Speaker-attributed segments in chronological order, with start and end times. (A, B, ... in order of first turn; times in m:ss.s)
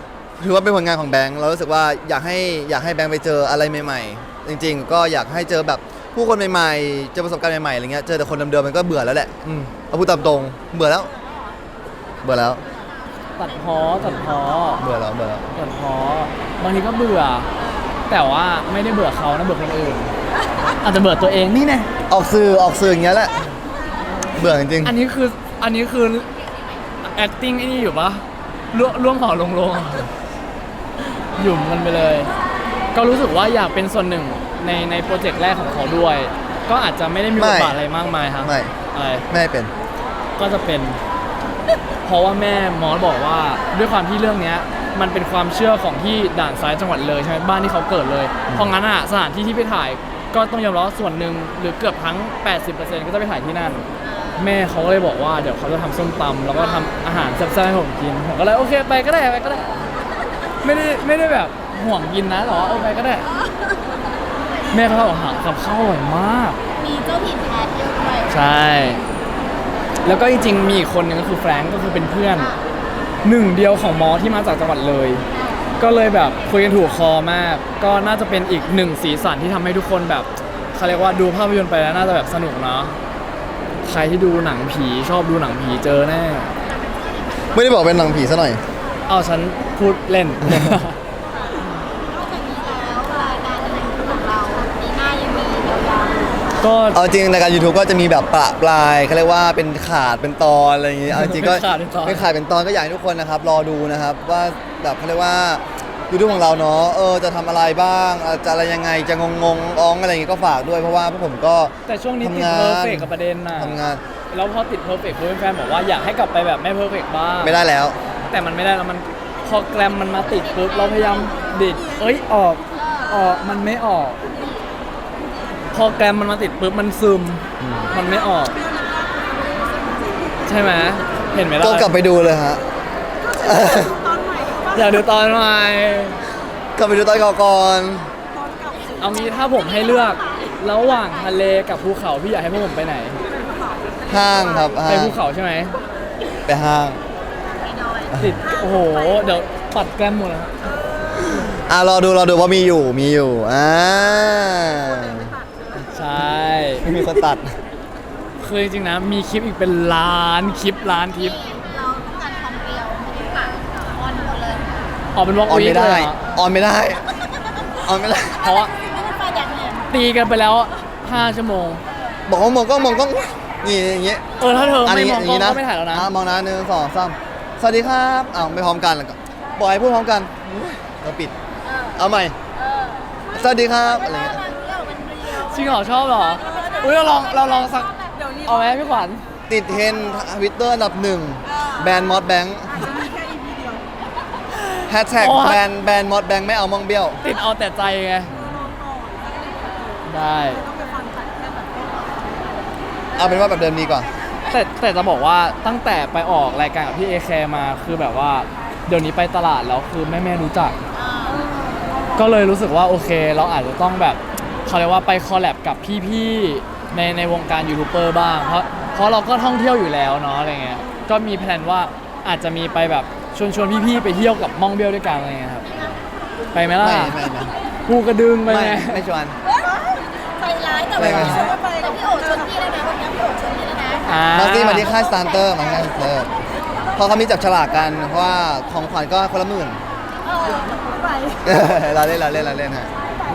0:00.4-0:11.1 A
0:12.2-0:12.6 A
0:13.4-0:14.8 B
0:14.8-0:15.4 A
0:15.5-0:17.5 B
0:18.1-0:20.1 B
0:20.8-0:21.9 B
0:22.1-0:23.4 A
0:24.3-0:25.0 A
0:24.8-0:26.3 B
0:27.0-0:30.1 B
0:31.1-0:32.3 B
0:32.9-0:39.2 B
0:37.3-0:37.8 A
0:38.4-0:38.7 A
0:39.3-0:39.7 A
0:40.4-0:41.0 B
0:42.0-0:59.7 B
0:54.0-0:54.4 C
0:56.6-0:57.0 C
1:00.6-1:03.3 B
1:04.7-1:06.6 B
1:06.8-1:08.3 C
1:08.3-1:09.0 B
1:10.0-1:12.5 B
1:13.2-1:15.2 B
1:15.3-1:15.7 C
1:15.8-1:23.0 B
1:23.8-1:26.5 B
1:27.5-1:28.6 A
1:29.1-1:31.0 B
1:30.5-1:30.8 A
1:31.5-1:36.6 C
1:36.6-1:37.0 B
1:36.9-1:54.0 A
1:41.1-1:42.2 B
1:51.8-1:53.8 B
1:54.3-1:57.6 B
1:57.4-1:58.0 A
1:58.3-2:04.2 B
2:00.9-2:01.4 C
2:05.7-2:08.6 B
2:07.6-2:07.9 A
2:10.5-2:11.9 B
2:11.6-2:12.6 A
2:13.4-2:14.0 A
2:14.7-2:16.3 B
2:16.8-2:18.1 A
2:18.7-2:20.4 C
2:19.0-2:23.2 B
2:24.1-2:25.2 A
2:24.8-2:25.8 B
2:26.5-2:27.0 A
2:27.6-2:28.2 C
2:28.1-2:30.5 B
2:31.2-2:35.4 A
2:35.8-2:36.8 B
2:36.8-2:37.5 A
2:38.4-2:41.4 B
2:41.1-2:44.6 C
2:45.1-2:46.2 B
2:45.5-2:47.1 A
2:47.8-2:48.5 A
2:48.4-2:48.7 B
2:48.6-2:49.9 C
2:49.9-2:51.8 B
2:52.3-2:54.2 A
2:54.4-2:56.1 B
2:54.8-3:01.3 A
3:02.0-3:02.4 A
3:02.6-3:03.0 C
3:03.3-3:04.4 A
3:03.9-3:08.4 C
3:05.3-3:09.2 B
3:09.5-3:12.9 A
3:12.8-3:13.8 C
3:14.9-3:17.2 A
3:15.1-3:15.6 B
3:17.2-3:18.3 B
3:20.0-3:20.6 B
3:23.2-3:24.1 A
3:24.5-3:30.8 B
3:30.9-3:31.5 C
3:32.2-3:45.7 B
3:46.5-3:47.2 B
3:46.8-3:47.5 A
3:47.8-3:49.0 B
3:48.5-3:49.4 A
3:49.5-3:49.8 C
3:50.3-3:54.1 C
3:51.0-3:51.4 A
3:51.0-3:51.6 B
3:54.0-3:54.9 B
3:54.3-3:56.3 A
3:57.0-3:59.8 A
4:00.3-4:01.4 C
4:01.4-4:02.9 A